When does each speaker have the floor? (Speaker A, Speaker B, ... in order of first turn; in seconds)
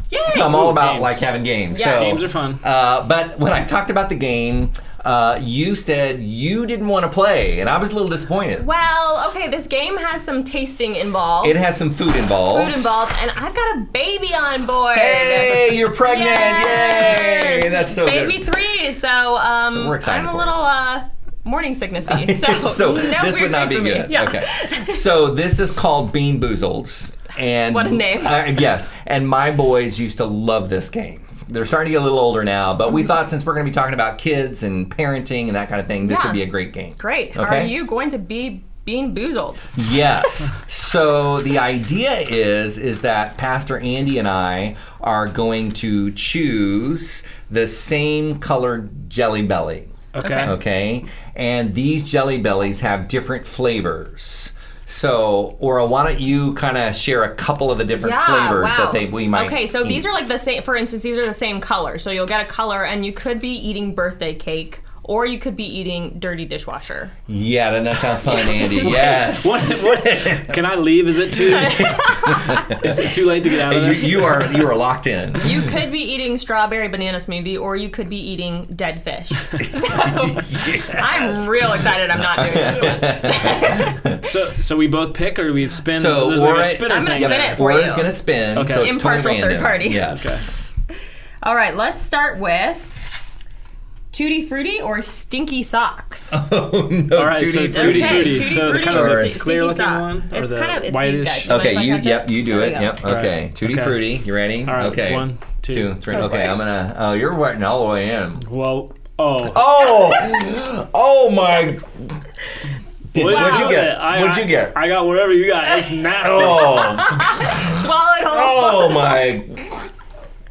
Speaker A: 0.1-0.8, 1.7-2.2, 8.6-11.6, 12.5-25.0, 27.7-28.6, 36.0-36.4, 37.0-39.7, 50.2-50.6, 58.0-67.1, 68.2-69.3, 71.4-72.8, 75.4-84.1, 86.9-88.1, 88.7-90.1, 91.4-93.0, 94.1-96.5, 97.7-103.0, 106.1-106.6, 113.2-113.9, 115.7-119.1
Speaker B: 0.3-8.7, 11.4-12.9, 14.9-18.5, 19.7-20.6, 22.1-37.8, 39.7-60.1, 67.3-70.6, 71.5-72.9, 73.5-75.7, 79.6-84.2, 85.9-90.7, 96.3-99.4, 101.5-108.4, 109.5-111.9, 113.1-114.8, 116.2-119.9
Speaker C: 0.4-1.3, 1.9-2.6, 50.1-50.6, 68.8-72.1, 72.6-74.7, 84.2-87.6, 88.5-88.9, 90.2-90.5, 97.2-101.6, 103.0-106.3, 108.4-109.6, 113.2-116.9